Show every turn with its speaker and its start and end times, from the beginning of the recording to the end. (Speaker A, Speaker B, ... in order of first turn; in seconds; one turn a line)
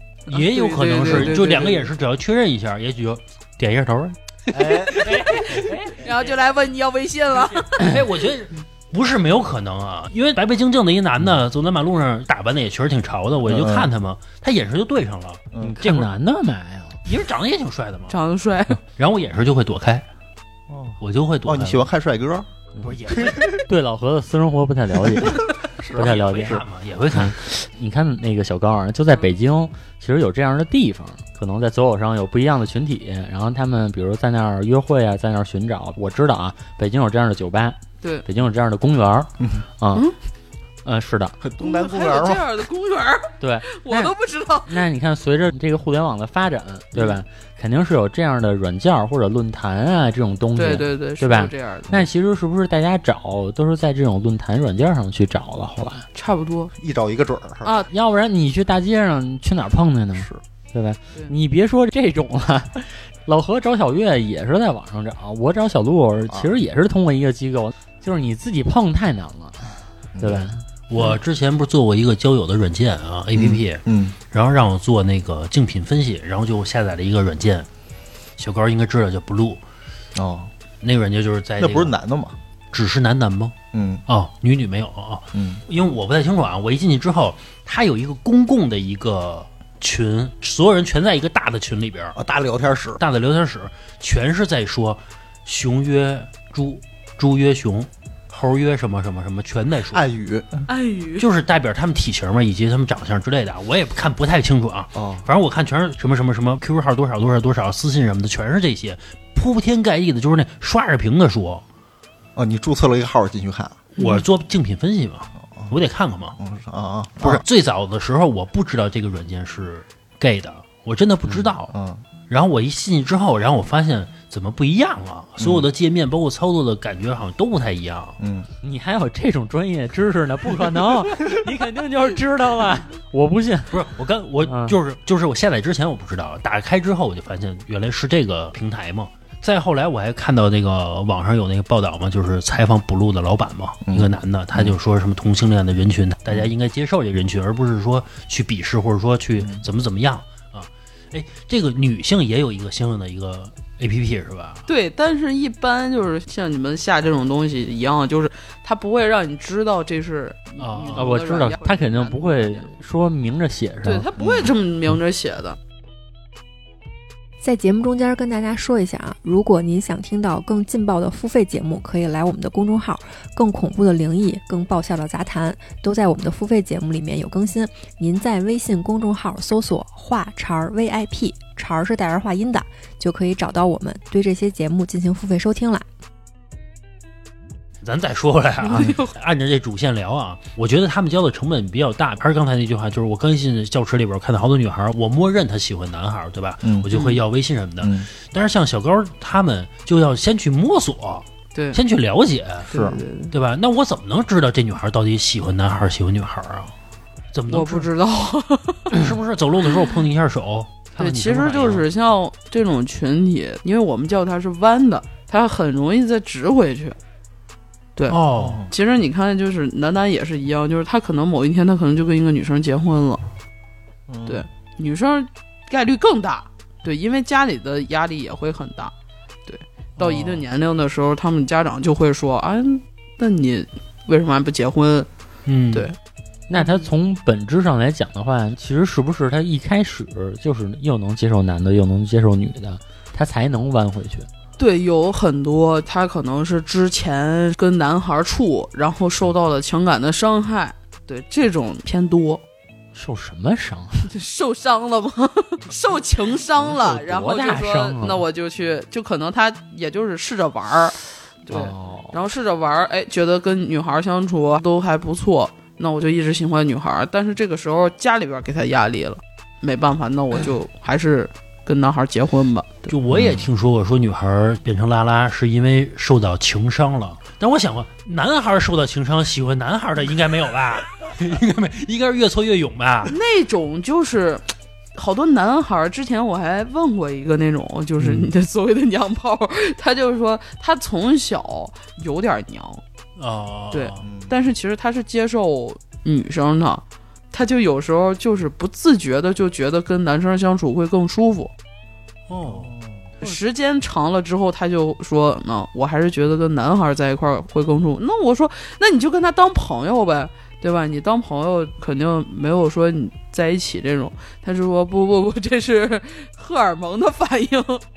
Speaker A: 0.3-1.9
Speaker B: 0.3-6.0
Speaker C: 4.5-5.4
Speaker A: 5.0-7.9
Speaker B: 7.5-16.1
Speaker C: 13.4-13.9
Speaker D: 15.6-17.0
Speaker B: 17.1-18.2
Speaker A: 18.1-18.8
Speaker B: 19.0-20.0
Speaker C: 20.7-22.5
Speaker B: 21.0-21.9
Speaker B: 22.8-23.6
Speaker C: 23.1-23.6
Speaker D: 23.5-26.6
Speaker C: 25.2-26.6
Speaker B: 25.9-27.4
Speaker D: 27.1-40.1
Speaker D: 40.8-41.4
Speaker C: 41.4-42.6
Speaker A: 41.6-44.7
Speaker D: 43.4-44.1
Speaker D: 44.6-56.1
Speaker A: 50.5-52.0
Speaker A: 56.1-56.7
Speaker C: 56.8-57.7
Speaker A: 57.6-57.9
Speaker D: 57.9-70.6
Speaker C: 70.2-70.5
Speaker B: 70.9-77.7
Speaker C: 73.3-74.2
Speaker B: 78.4-79.6
Speaker C: 80.2-80.5
Speaker B: 80.8-82.0
Speaker C: 81.6-82.3
Speaker B: 82.7-83.5
Speaker C: 83.7-84.0
Speaker B: 84.1-92.2
Speaker C: 85.3-85.6
Speaker C: 92.2-93.0
Speaker B: 93.0-100.0
Speaker C: 99.9-100.7
Speaker A: 100.7-101.3
Speaker B: 101.2-111.6
Speaker C: 104.9-105.2
Speaker C: 112.3-113.8
Speaker A: 114.0-114.2
Speaker B: 114.0-116.4
Speaker C: 116.4-117.4
Speaker B: 117.2-121.7
Speaker C: 121.2-122.0
Speaker B: 122.3-128.2
Speaker C: 125.4-125.7
Speaker C: 128.2-128.5
Speaker D: 128.6-133.9
Speaker B: 133.7-154.6
Speaker D: 134.4-134.8
Speaker C: 143.9-144.7
Speaker A: 154.7-162.7
Speaker B: 160.6-161.2
Speaker D: 160.9-164.1
Speaker A: 163.8-165.6
Speaker C: 164.2-164.5
Speaker E: 167.4-185.8
Speaker B: 187.8-202.7
Speaker A: 188.6-189.1
Speaker C: 196.6-196.9
Speaker A: 196.9-197.2
Speaker C: 197.8-198.1
Speaker A: 201.5-201.8
Speaker A: 202.7-203.3
Speaker C: 202.7-203.0
Speaker B: 203.3-206.7
Speaker B: 207.3-207.9
Speaker A: 207.5-209.1
Speaker B: 208.9-211.8
Speaker A: 211.0-217.0
Speaker A: 217.9-223.2
Speaker B: 218.1-218.6
Speaker C: 218.3-218.7
Speaker C: 224.1-224.4
Speaker A: 224.2-228.9
Speaker A: 229.5-235.1
Speaker B: 230.0-230.4
Speaker B: 235.4-235.9
Speaker D: 236.5-244.3
Speaker A: 244.6-252.4
Speaker D: 252.9-254.1
Speaker A: 254.1-272.9
Speaker D: 256.6-258.2
Speaker D: 261.5-262.1
Speaker B: 272.9-283.1
Speaker C: 273.1-273.5
Speaker A: 283.1-292.8
Speaker B: 288.0-288.3
Speaker B: 293.2-294.0
Speaker A: 293.7-301.5
Speaker C: 294.0-294.3
Speaker B: 302.3-302.7
Speaker C: 302.4-303.0
Speaker A: 303.2-317.8